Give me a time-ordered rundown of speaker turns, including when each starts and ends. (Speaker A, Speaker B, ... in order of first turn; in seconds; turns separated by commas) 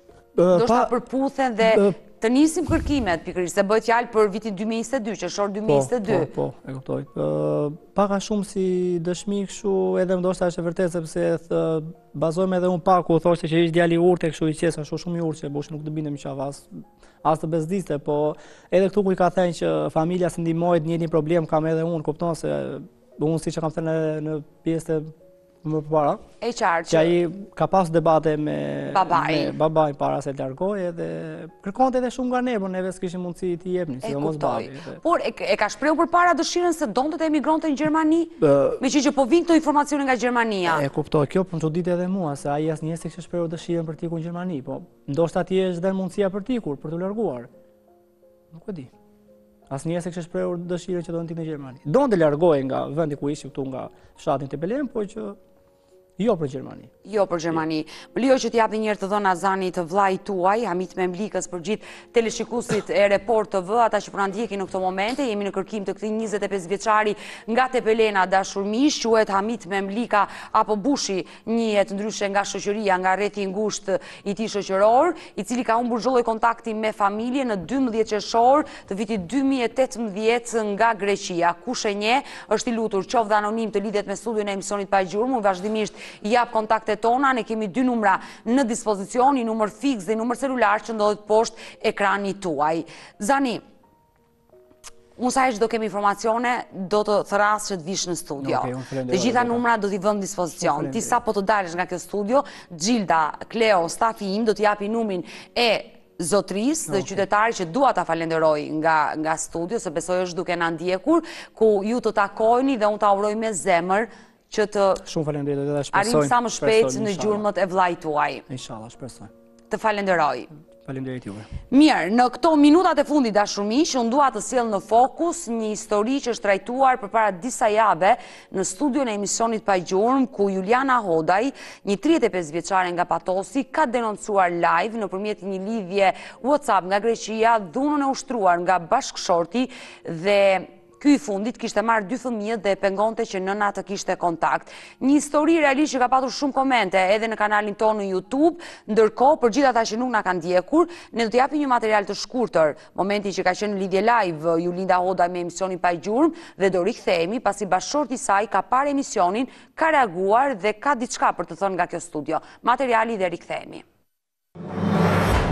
Speaker A: 0.3-0.9, Speaker B: 0.5-6.3, Speaker A: 1.6-2.0, Speaker A: 5.7-25.1, Speaker A: 25.6-26.2, Speaker B: 26.4-27.1, Speaker A: 26.9-35.0, Speaker B: 28.9-29.6, Speaker B: 34.0-40.8, Speaker A: 38.4-38.8, Speaker A: 40.6-47.5, Speaker A: 48.5-48.9, Speaker A: 49.7-55.4, Speaker A: 56.2-56.9, Speaker B: 57.0-93.6, Speaker B: 95.2-115.0, Speaker A: 98.4-99.6, Speaker A: 100.5-101.2, Speaker A: 106.9-107.2, Speaker A: 115.0-117.5, Speaker B: 115.9-118.4, Speaker A: 118.5-119.3, Speaker B: 119.7-120.5, Speaker A: 120.8-121.5, Speaker B: 121.7-163.8